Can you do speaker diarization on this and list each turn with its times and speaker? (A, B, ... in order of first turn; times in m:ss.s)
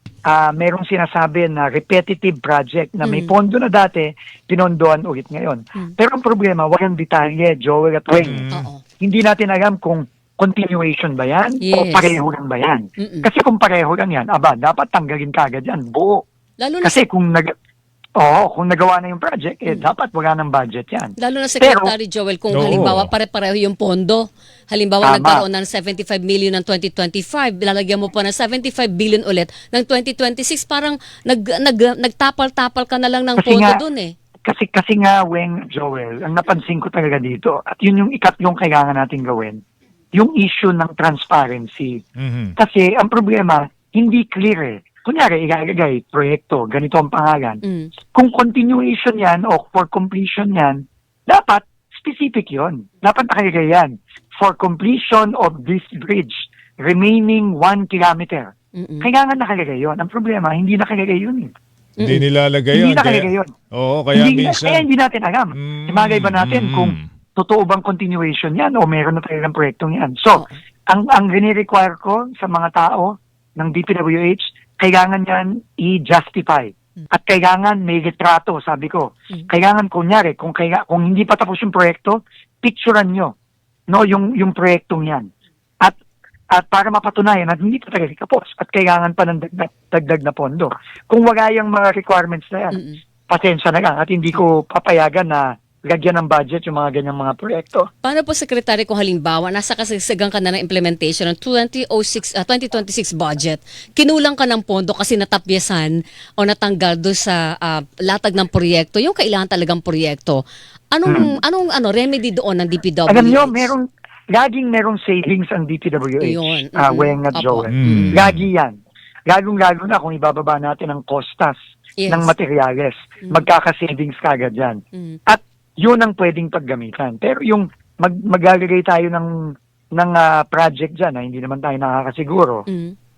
0:00.3-0:08.4 A
0:03.0-0:03.3 B
0:08.2-0:08.7 C
0:08.5-0:08.8 B
0:09.0-0:16.2 A
0:11.6-0:12.2 B
0:13.0-0:13.3 B
0:16.6-0:17.0 B
0:16.8-0:17.5 A
0:18.2-0:21.9 A
0:21.2-0:34.1 B
0:22.5-0:23.1 C
0:25.0-0:25.4 A
0:33.4-0:33.8 A
0:34.4-0:39.6 A
0:40.1-0:42.0 A
0:42.2-0:42.5 C
0:42.6-0:47.6 A
0:47.6-0:47.9 B
0:48.1-1:01.5 A
0:58.7-0:59.1 B
1:02.0-1:02.2 B
1:02.0-1:04.8 C
1:02.7-1:03.5 A
1:04.1-1:23.3 A
1:05.5-1:07.0 C
1:23.9-1:25.3 A
1:26.5-1:37.9 A
1:32.7-1:33.0 B
1:38.0-1:53.7 B
1:51.1-1:51.3 A
1:53.1-2:01.6 A
1:56.2-1:58.2 B
1:57.7-1:58.4 C
2:02.0-2:02.3 B
2:02.1-2:12.6 A
2:04.9-2:05.2 B
2:12.7-2:12.9 B